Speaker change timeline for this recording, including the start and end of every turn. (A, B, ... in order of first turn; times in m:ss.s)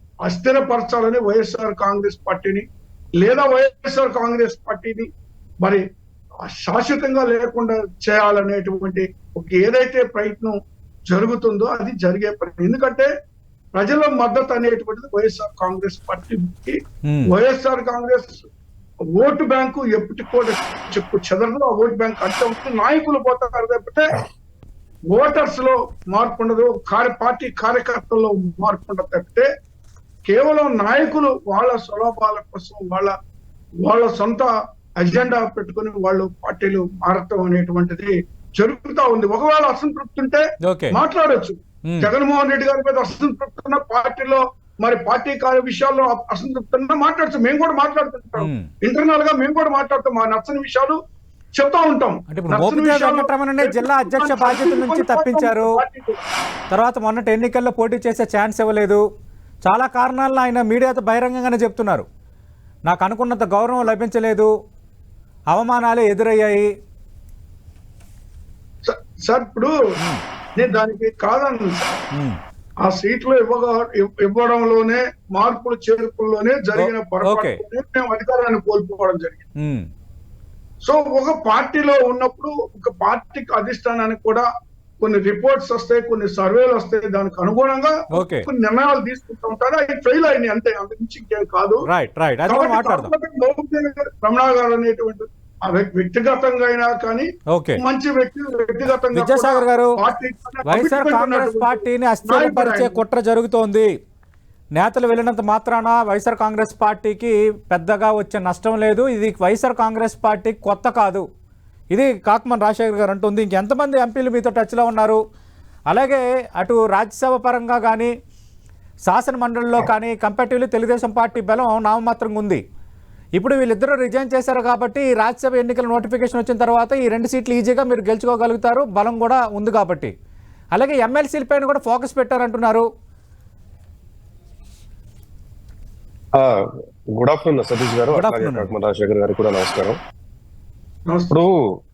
0:00.2-0:02.6 A
0:03.2-0:05.1 A
0:06.4-0:10.6 A
0:11.1-0:13.1 A
0:13.7-0:18.5 A
0:17.0-0:17.3 B
0:19.2-0:24.2 A
0:25.1-0:29.5 A
0:30.3-0:33.2 A
0:33.8-0:51.0 A
0:40.6-0:41.0 B
0:41.9-0:42.1 B
0:48.4-0:48.7 B
0:51.6-0:56.2 A
0:52.3-0:55.8 B
0:56.7-0:59.0 B
0:59.6-1:02.0 B
1:02.9-1:04.5 B
1:05.5-1:06.7 B
1:08.8-1:09.8 A
1:10.6-1:12.0 A
1:12.1-1:12.4 B
1:12.9-1:19.4 A
1:16.8-1:17.6 B
1:19.6-1:19.9 B
1:20.8-1:24.5 A
1:25.0-1:31.9 A
1:28.1-1:28.5 B
1:31.9-1:33.1 B
1:32.5-1:37.3 A
1:37.5-1:37.8 B
1:37.8-1:43.0 A
1:39.2-1:40.0 B
1:40.7-1:43.9 B
1:44.8-1:51.3 B
1:51.9-1:55.2 B
1:55.9-1:58.1 B
1:59.1-2:02.6 B
2:03.4-2:10.1 B
2:10.7-2:12.9 B
2:16.4-2:20.0 C
2:18.1-2:18.7 B
2:21.1-2:21.3 A
2:21.3-2:21.7 C